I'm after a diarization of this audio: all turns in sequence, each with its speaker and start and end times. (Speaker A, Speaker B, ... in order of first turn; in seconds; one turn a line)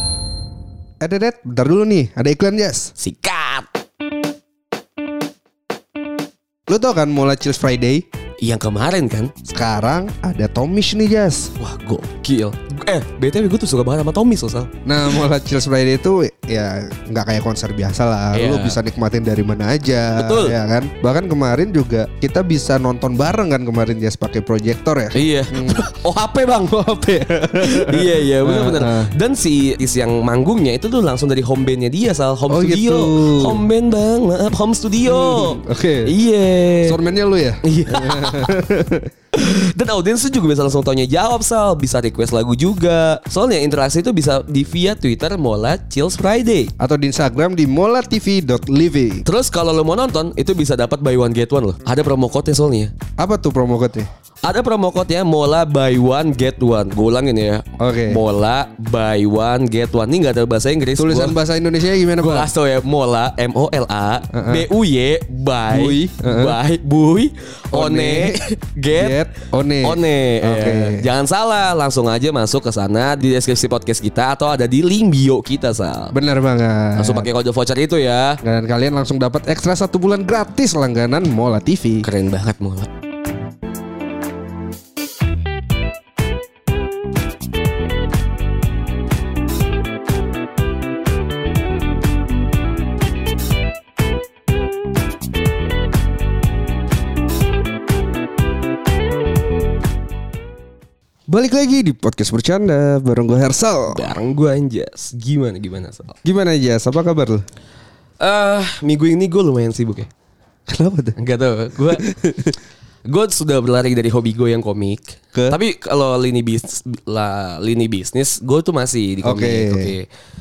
Speaker A: 1.0-2.9
Speaker B: 3.0-3.7
Speaker A: 6.7-8.1
Speaker B: 8.4-9.3
Speaker A: 9.4-11.5
Speaker B: 11.6-14.7
Speaker A: 14.8-25.8
Speaker B: 18.3-18.8
Speaker B: 20.1-20.6
Speaker B: 25.1-26.8
Speaker A: 26.7-29.1
Speaker B: 27.6-37.0
Speaker A: 32.5-33.6
Speaker A: 35.0-36.1
Speaker A: 36.8-39.1
Speaker B: 37.6-38.6
Speaker B: 39.3-46.7
Speaker A: 46.8-49.2
Speaker B: 49.2-52.9
Speaker A: 53.2-54.1
Speaker B: 54.4-61.4
Speaker A: 57.8-58.2
Speaker A: 61.0-62.5
Speaker B: 62.1-69.2
Speaker A: 64.3-64.7
Speaker A: 65.7-66.6
Speaker A: 67.7-68.4
Speaker A: 69.0-71.0
Speaker B: 69.8-76.1
Speaker A: 76.1-77.3
Speaker B: 77.0-78.4
Speaker A: 78.4-82.1
Speaker B: 82.0-82.9
Speaker A: 101.3-104.1
Speaker B: 103.9-106.1
Speaker A: 106.2-107.4
Speaker B: 108.2-110.1
Speaker A: 110.7-111.2
Speaker B: 111.2-112.0
Speaker A: 111.9-112.5
Speaker B: 113.0-120.1
Speaker A: 115.3-115.6
Speaker A: 119.2-119.9